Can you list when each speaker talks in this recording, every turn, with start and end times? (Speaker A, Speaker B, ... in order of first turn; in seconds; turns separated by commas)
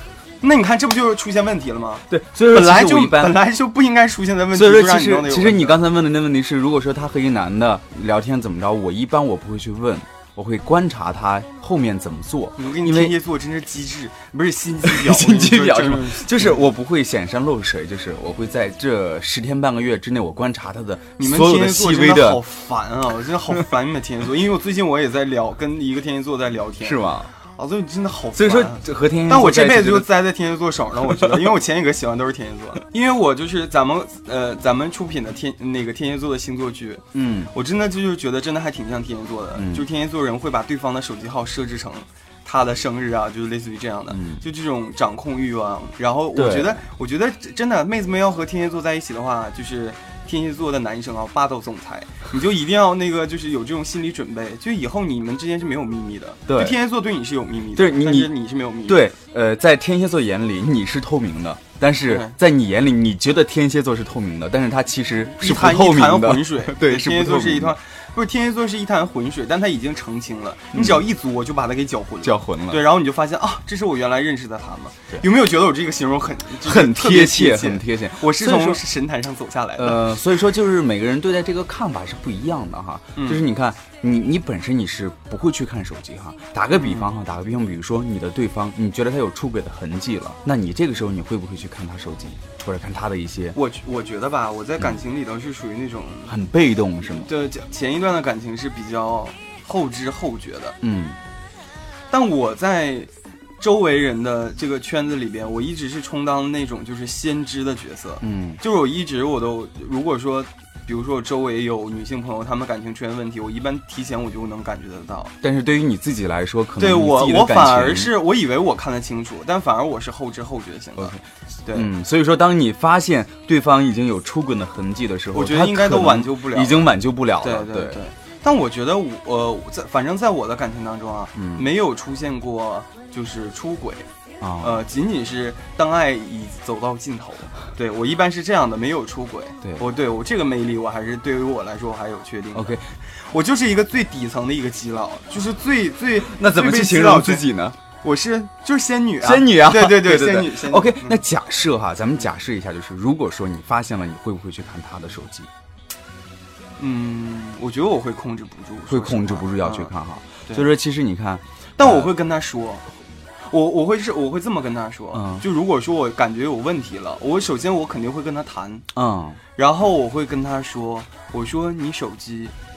Speaker A: 0.4-5.8, Speaker B: 2.1-3.4, Speaker B: 4.5-13.1, Speaker A: 12.6-16.6, Speaker B: 14.8-22.4, Speaker A: 21.2-59.1, Speaker B: 26.8-27.3, Speaker B: 28.3-30.1, Speaker B: 31.1-31.5, Speaker B: 37.1-37.5, Speaker B: 39.5-39.8, Speaker B: 44.1-44.4, Speaker B: 46.3-46.8, Speaker B: 56.5-56.8, Speaker B: 57.7-58.3, Speaker B: 58.9-67.8, Speaker A: 62.0-62.4, Speaker A: 65.3-80.2, Speaker B: 70.7-71.0, Speaker B: 72.2-72.9, Speaker B: 76.6-78.8, Speaker B: 79.8-93.6, Speaker A: 83.2-83.4, Speaker A: 86.7-87.1, Speaker A: 93.5-96.3, Speaker B: 96.3-97.3, Speaker A: 97.1-100.8, Speaker B: 100.8-101.2, Speaker A: 102.1-115.3, Speaker B: 108.2-108.6, Speaker B: 115.4-118.1, Speaker A: 116.8-121.9, Speaker B: 121.0-121.2, Speaker B: 121.7-128.0, Speaker A: 125.3-134.1, Speaker B: 131.3-131.7, Speaker B: 134.4-134.8, Speaker A: 134.6-147.5, Speaker B: 142.5-142.9, Speaker B: 146.2-147.8, Speaker A: 148.0-151.2, Speaker B: 149.2-155.5, Speaker A: 156.8-159.9, Speaker B: 158.9-162.1, Speaker A: 161.8-162.9, Speaker A: 163.5-168.8, Speaker B: 165.1-165.4, Speaker B: 168.9-169.4, Speaker A: 169.6-172.5